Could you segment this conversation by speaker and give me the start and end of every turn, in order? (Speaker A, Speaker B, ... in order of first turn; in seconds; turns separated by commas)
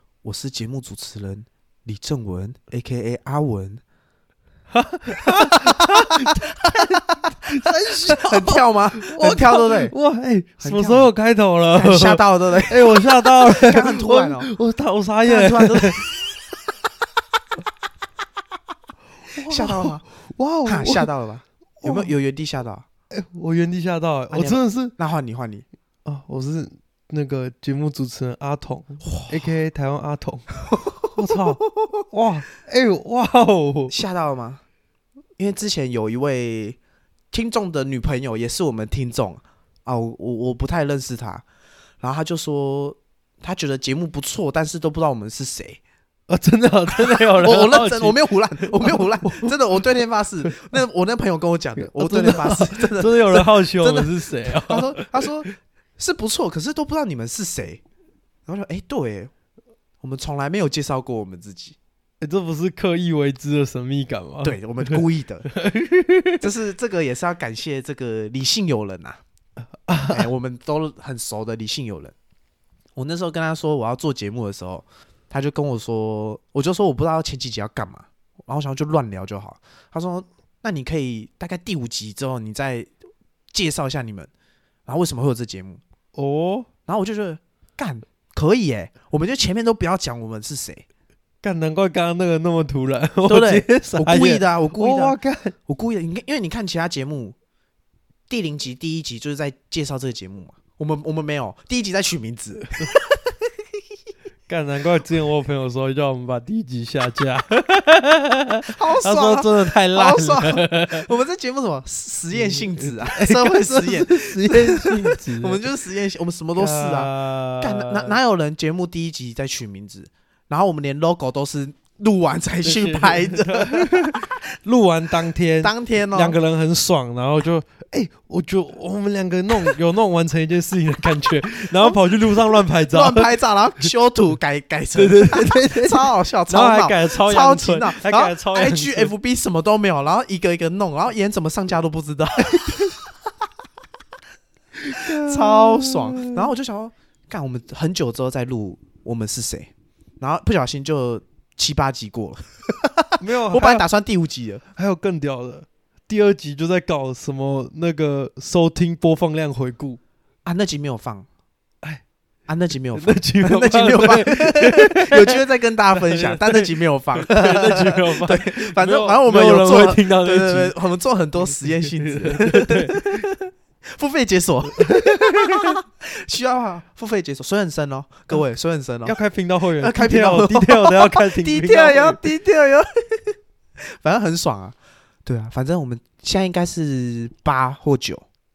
Speaker A: 0.2-3.8, Speaker B: 4.7-16.1, Speaker A: 5.2-9.9, Speaker A: 10.6-11.1, Speaker A: 11.7-14.5, Speaker A: 15.2-16.2, Speaker B: 19.3-21.1, Speaker A: 19.5-20.0, Speaker A: 20.6-22.9, Speaker B: 21.8-22.1, Speaker B: 23.1-24.9, Speaker A: 24.3-25.6, Speaker B: 26.1-30.5, Speaker A: 29.0-29.5, Speaker A: 30.8-31.6, Speaker B: 31.1-33.9, Speaker A: 33.9-34.6, Speaker A: 35.4-36.8, Speaker A: 37.3-41.4, Speaker A: 42.0-45.8, Speaker B: 46.3-49.8, Speaker A: 47.0-57.8, Speaker B: 51.8-55.3, Speaker A: 58.5-59.3, Speaker A: 60.0-61.8, Speaker B: 62.2-66.5, Speaker A: 64.4-65.5, Speaker A: 66.4-69.2, Speaker B: 69.9-70.3, Speaker A: 70.1-72.1, Speaker A: 73.0-82.9, Speaker A: 83.5-84.3, Speaker A: 84.9-85.8, Speaker B: 86.2-86.7, Speaker A: 86.9-90.8, Speaker B: 91.4-95.5, Speaker A: 93.3-97.4, Speaker A: 98.3-103.3, Speaker B: 104.5-111.1, Speaker A: 108.7-124.3, Speaker B: 112.3-115.6, Speaker B: 116.6-118.2, Speaker B: 122.7-133.3, Speaker A: 125.6-126.4, Speaker A: 132.8-143.1, Speaker B: 134.9-139.1, Speaker B: 142.4-142.9, Speaker B: 144.8-146.5, Speaker A: 144.9-154.6, Speaker B: 153.2-153.8, Speaker B: 154.8-160.0, Speaker A: 160.4-161.3, Speaker A: 162.5-179.2, Speaker B: 163.0-165.4, Speaker B: 165.9-170.8, Speaker B: 171.7-173.3, Speaker B: 174.8-175.8, Speaker B: 179.1-182.2, Speaker A: 179.8-183.4, Speaker A: 183.9-188.2